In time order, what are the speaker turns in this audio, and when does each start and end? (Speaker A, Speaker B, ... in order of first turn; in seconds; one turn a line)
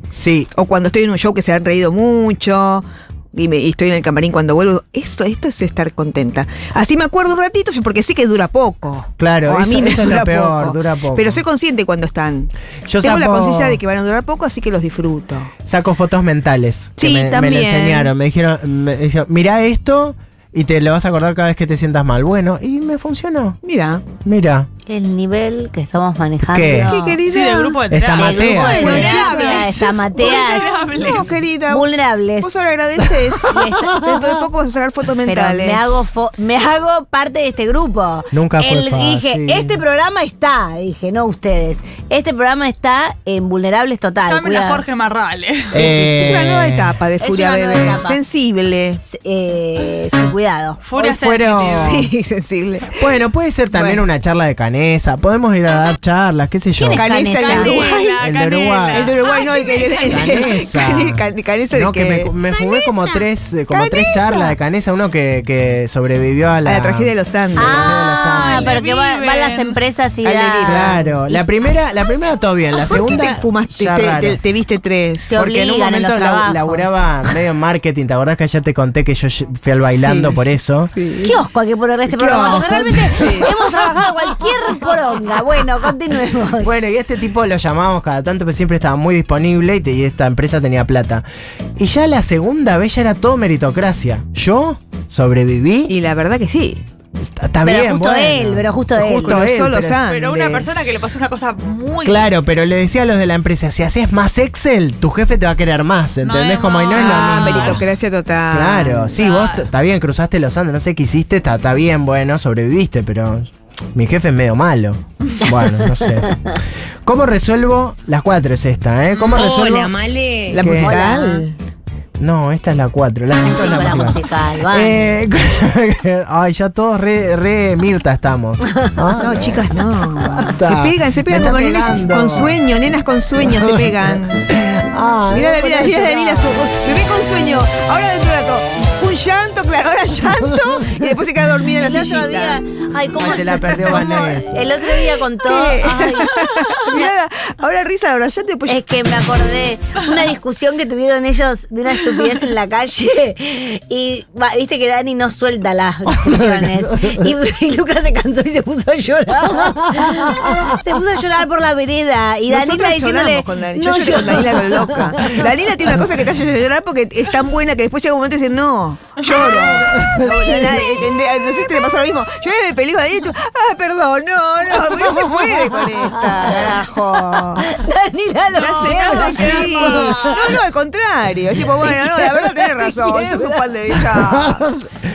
Speaker A: 0.1-0.5
Speaker B: 0.5-15.5
Speaker A: 9.2-11.4
Speaker A: 12.9-13.8
Speaker A: 15.7-23.6
Speaker B: 17.0-18.1
Speaker B: 23.6-24.1
Speaker A: 24.2-24.7
Speaker C: 24.9-27.2
Speaker A: 26.5-26.9
Speaker B: 26.7-27.9
Speaker D: 27.3-31.3
Speaker A: 27.9-29.8
Speaker C: 28.1-30.9
Speaker B: 28.5-36.1
Speaker C: 31.7-32.7
Speaker C: 33.5-33.9
Speaker A: 33.9-34.3
Speaker C: 35.2-44.9
Speaker A: 38.3-39.8
Speaker D: 44.2-45.9
Speaker A: 45.7-47.0
Speaker C: 45.8-46.5
Speaker B: 45.8-49.0
Speaker C: 47.2-48.2
Speaker C: 49.0-50.8
Speaker D: 50.8-52.0
Speaker A: 51.0-52.1
Speaker B: 51.6-53.1
Speaker A: 53.0-57.0
Speaker B: 53.7-54.0
Speaker C: 56.8-57.8
Speaker B: 56.9-58.2
Speaker D: 57.4-60.7
Speaker A: 58.2-59.2
Speaker B: 58.9-62.3
Speaker A: 60.1-68.8
Speaker C: 62.5-63.2
Speaker B: 63.7-64.6
Speaker B: 66.7-68.0
Speaker C: 67.6-71.4
Speaker D: 68.2-69.8
Speaker B: 70.2-71.1
Speaker A: 70.7-74.4
Speaker B: 72.8-75.4
Speaker C: 75.3-77.0
Speaker A: 75.3-80.9
Speaker B: 79.8-81.4
Speaker C: 81.2-86.8
Speaker A: 82.1-85.0
Speaker B: 83.2-83.5
Speaker A: 86.6-91.3
Speaker A: 91.8-95.9
Speaker B: 95.9-96.8
Speaker A: 97.2-100.0
Speaker C: 97.6-99.5
Speaker B: 99.2-101.0
Speaker D: 100.0-102.3
Speaker A: 102.0-107.8
Speaker D: 106.2-107.8
Speaker B: 106.9-109.1
Speaker A: 108.5-116.3
Speaker D: 109.1-109.7
Speaker A: 117.1-120.0
Speaker D: 119.1-119.5
Speaker C: 119.3-121.5
Speaker B: 120.5-121.6
Speaker A: 120.6-121.0
Speaker A: 122.2-129.6
Speaker C: 123.4-125.2
Speaker C: 128.7-129.1
Speaker B: 129.2-134.5
Speaker A: 130.2-132.6
Speaker A: 133.4-136.6
Speaker B: 135.3-142.6
Speaker C: 141.8-146.3
Speaker A: 143.2-144.6
Speaker B: 145.4-148.8
Speaker C: 148.7-165.4
Speaker A: 156.1-157.3
Speaker A: 159.6-160.8
Speaker B: 162.5-177.6
Speaker A: 169.5-170.8
Speaker C: 170.1-170.9
Speaker A: 175.1-176.4
Speaker C: 177.6-180.3
Speaker D: 178.6-180.5
Speaker B: 178.6-184.7
Speaker A: 179.3-180.2
Speaker C: 181.8-183.6
Speaker A: 184.1-184.8